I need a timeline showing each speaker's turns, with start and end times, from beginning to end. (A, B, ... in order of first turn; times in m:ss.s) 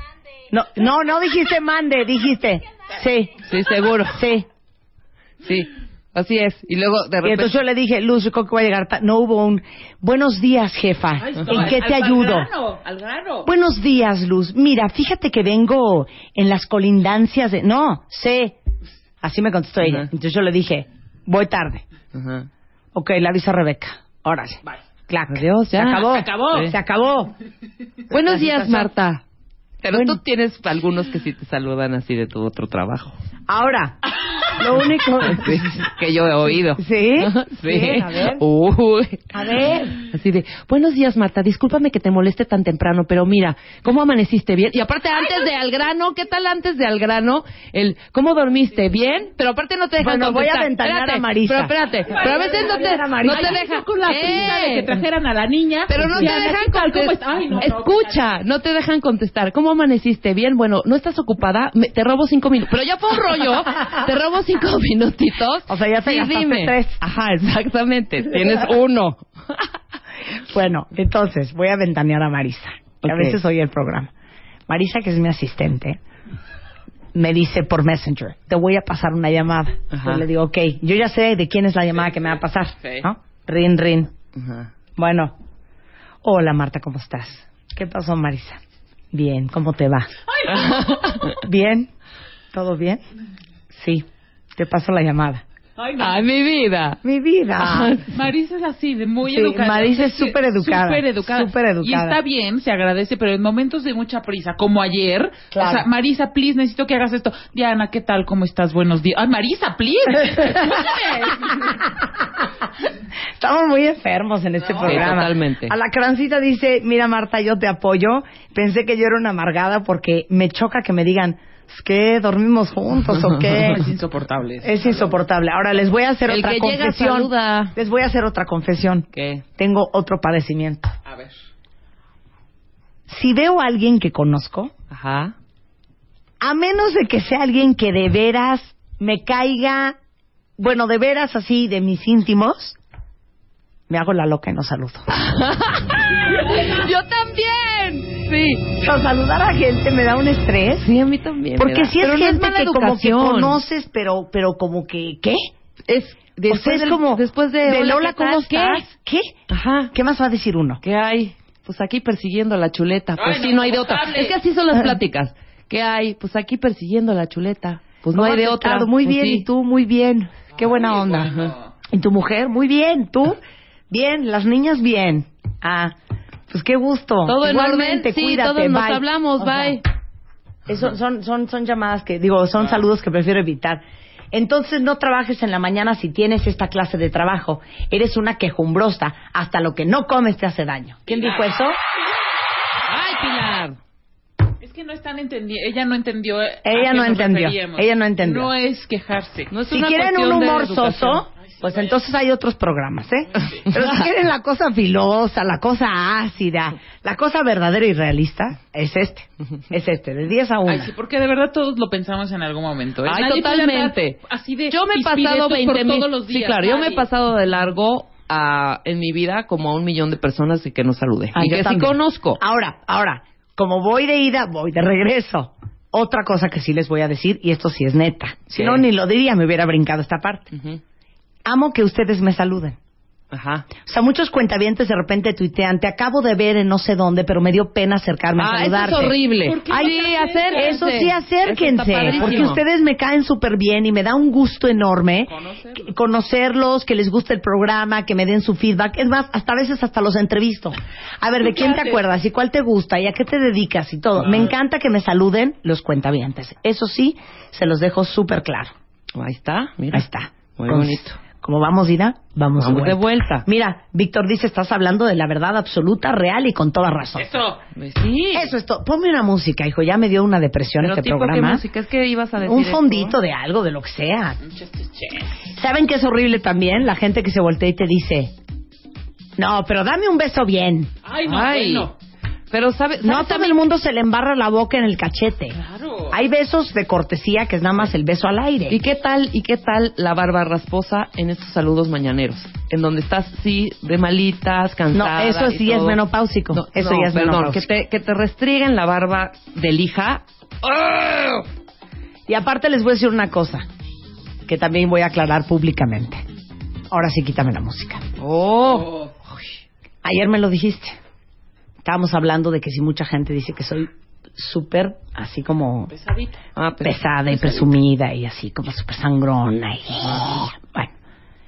0:00.5-0:03.4 A
0:03.4-0:04.2 B
0:04.1-0:04.5 A
0:05.4-0:07.5 B
0:07.2-0:12.5 A
0:11.2-0:13.5 C
0:13.4-0:18.6 A
0:19.2-0:21.8 A
0:19.8-0:20.1 B
0:22.1-0:22.5 B
0:22.9-0:27.3 A
0:25.3-0:26.7 B
0:26.0-0:26.7 C
0:28.1-0:29.2 B
0:28.1-0:28.9 A
0:29.8-0:33.2 B
0:29.9-0:30.2 A
0:33.5-0:34.0 A
0:34.6-0:35.9 A
0:35.2-0:39.3 B
0:36.8-0:38.4 A
0:39.3-0:40.0 A
0:40.0-0:54.9 B
0:50.0-0:53.6 A
0:52.1-0:58.2 C
0:55.9-1:09.6 B
0:56.0-0:56.4 A
1:05.7-1:07.0 A
1:10.5-1:14.1 A
1:13.0-1:13.4 B
1:14.7-1:16.0 A
1:17.1-1:24.1 A
1:19.9-1:20.2 B
1:24.4-1:24.7 B
1:25.0-1:25.4 A
1:26.2-1:28.6 A
1:29.1-1:30.1 A
1:30.3-1:30.8 C
1:30.5-1:31.4 B
1:31.3-1:31.9 A
1:32.5-1:33.0 A
1:33.7-1:35.4 A
1:35.8-1:36.2 C
1:36.0-1:37.0 B
1:37.0-1:37.9 A
1:37.6-1:38.1 B
1:38.1-1:51.8 C
1:39.3-1:42.2 A
1:45.5-1:45.9 A
1:50.6-1:50.8 A
1:53.4-2:03.8 A
1:54.7-1:55.1 C
1:54.8-1:55.8 B
2:03.1-2:03.4 B
2:03.6-2:05.2 C
2:04.6-2:10.9 A
2:06.3-2:07.8 B
2:09.1-2:09.4 B
2:11.1-2:11.4 C
2:13.1-2:14.7 A
2:14.9-2:15.4 B
2:16.4-2:20.0 A
2:20.6-2:22.8 A
2:23.9-2:25.1 A
2:25.1-2:28.8 B
2:28.7-2:30.9 A
2:30.8-2:33.6 B
2:31.6-2:35.5 A
2:35.9-2:38.8 B
2:36.5-2:39.4 A
2:39.5-2:39.9 B
2:39.9-2:40.8 A
2:40.8-2:49.5 B
2:43.2-2:44.4 C
2:48.1-2:51.4 A
2:50.6-2:51.7 C
2:51.9-2:56.0 A
2:56.5-2:59.8 A
2:57.2-2:59.8 B
3:00.7-3:11.8 A
3:11.1-3:11.6 C
3:12.9-3:13.8 B
3:14.6-3:19.5 C
3:16.6-3:18.5 A
3:19.5-3:21.2 B
3:19.7-3:30.9 A
3:21.4-3:22.0 C
3:23.4-3:23.6 C
3:30.7-3:37.1 C
3:33.1-3:42.4 B
3:41.4-3:50.5 A
3:48.5-3:48.9 B
3:50.5-3:50.8 B
3:51.5-3:52.8 A
3:53.3-3:53.7 B
3:53.8-3:59.1 A
3:58.4-4:02.6 B
3:59.4-4:01.1 C
3:59.7-4:00.0 A
4:00.6-4:18.7 A
4:02.0-4:02.5 C
4:05.3-4:05.9 C
4:11.4-4:12.0 C
4:14.2-4:14.5 C
4:19.1-4:21.2 B
4:19.9-4:27.3 A
4:22.6-4:23.5 B
4:27.2-4:27.6 C
4:27.8-4:28.6 B
4:28.3-4:31.6 A
4:30.8-4:33.2 B
4:32.4-4:34.4 A
4:34.4-4:35.4 C
4:35.5-4:38.3 A
4:39.4-4:40.9 A
4:41.0-4:42.0 C
4:41.2-4:41.9 B
4:42.5-4:43.6 B
4:43.0-4:45.6 A
4:45.5-4:46.2 C
4:46.1-4:48.8 A
4:48.7-5:01.1 B
4:54.9-4:57.7 A
5:00.7-5:01.3 A
5:02.3-5:03.7 A
5:04.5-5:06.2 A
5:06.9-5:08.0 A
5:08.2-5:09.0 B
5:08.7-5:09.1 C
5:10.0-5:11.0 A
5:11.8-5:15.9 A
5:15.9-5:16.4 C
5:16.6-5:17.6 B
5:16.8-5:20.9 A